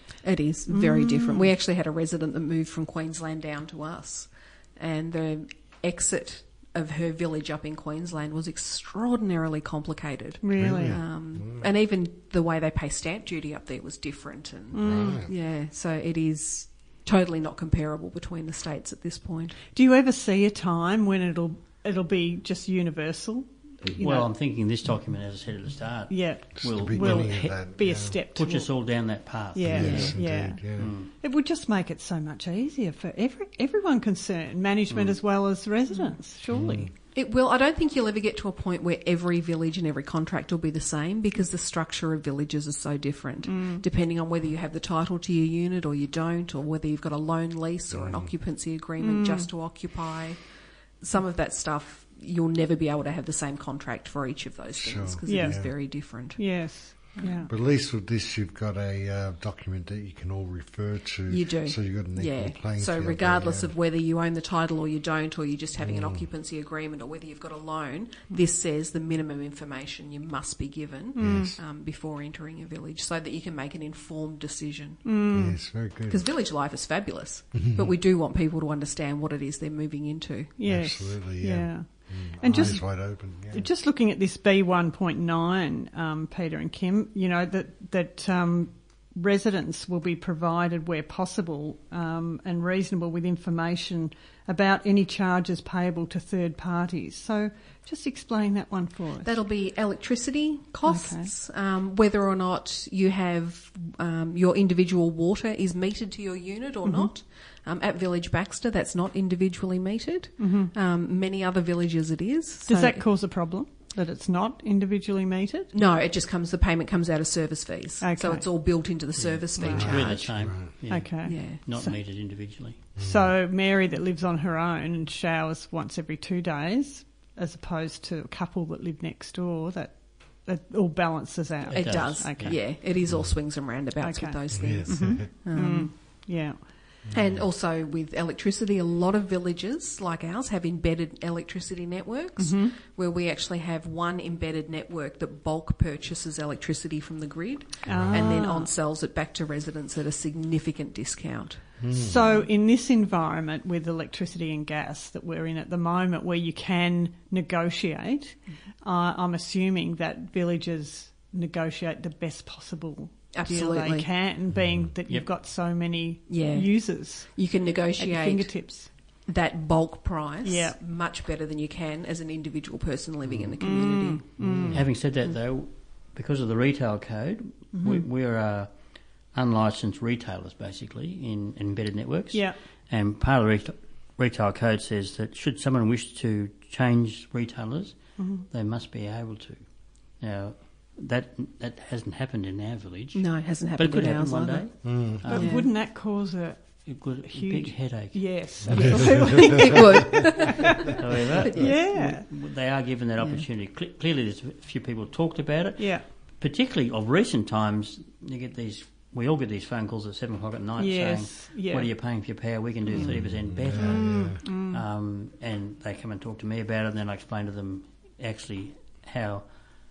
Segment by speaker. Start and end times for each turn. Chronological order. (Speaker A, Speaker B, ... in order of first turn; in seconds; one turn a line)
Speaker A: 0.2-19.6
Speaker B: 0.7-1.5
Speaker B: 10.4-11.0
Speaker C: 10.6-11.7
Speaker B: 14.7-15.2
Speaker C: 14.8-15.3
Speaker B: 19.7-24.3
Speaker D: 24.0-27.6
Speaker B: 26.1-28.8
Speaker C: 26.6-28.2
Speaker D: 28.4-30.2
Speaker B: 29.5-36.9
Speaker C: 29.6-30.9
Speaker A: 29.9-30.1
Speaker D: 30.8-31.1
Speaker C: 36.5-36.9
Speaker A: 37.1-50.4
Speaker B: 43.5-43.8
Speaker C: 47.9-48.3
Speaker B: 49.0-49.5
Speaker A: 51.0-57.5
Speaker C: 54.8-55.8
Speaker B: 55.3-57.5
Speaker C: 57.5-63.7
Speaker A: 61.3-75.1
Speaker C: 65.8-66.3
Speaker B: 71.2-71.5
Speaker C: 71.2-71.6
Speaker B: 75.0-75.6
Speaker C: 75.3-76.3
Speaker A: 76.1-80.6
Speaker C: 77.6-77.9
Speaker B: 80.6-99.3
Speaker C: 80.6-83.7
Speaker A: 99.2-113.0
Speaker B: 100.9-101.3
Speaker B: 106.8-107.1
Speaker B: 110.4-110.7
Speaker B: 112.7-115.7
Speaker A: 115.7-120.4
Speaker B: 118.0-118.5
Speaker D: 119.2-122.8
Speaker B: 119.6-119.9
Speaker C: 119.6-120.7
Speaker B: 120.9-122.0
Speaker A: 121.2-121.9
Speaker C: 123.0-123.4
Speaker B: 123.0-132.7
Speaker D: 131.7-132.7
Speaker A: 131.7-135.9
Speaker C: 133.1-133.4
Speaker B: 134.0-136.7
Speaker C: 134.5-135.3
Speaker C: 137.1-137.4
Speaker A: 137.1-151.8
Speaker B: 142.4-142.8
Speaker C: 147.9-148.4
Speaker B: 147.9-148.7
Speaker C: 151.8-152.4
Speaker B: 151.9-168.9
Speaker A: 163.3-164.1
Speaker C: 164.5-164.9
Speaker A: 166.3-174.7
Speaker B: 170.4-170.8
Speaker B: 173.6-174.8
Speaker C: 174.4-174.9
Speaker D: 174.7-178.7
Speaker A: 177.7-178.1
Speaker D: 179.3-189.6
Speaker B: 188.2-188.5
Speaker D: 190.2-195.6
Speaker A: 193.2-195.7
Speaker C: 194.8-195.2
Speaker B: 195.3-200.9
Speaker D: 196.9-198.7
Speaker A: 198.7-202.2
Speaker D: 201.0-219.5
Speaker B: 201.5-202.3
Speaker A: 203.2-203.4
Speaker B: 205.8-206.1
Speaker B: 210.8-211.9
Speaker A: 212.9-213.2
Speaker C: 213.0-214.4
Speaker B: 213.8-214.8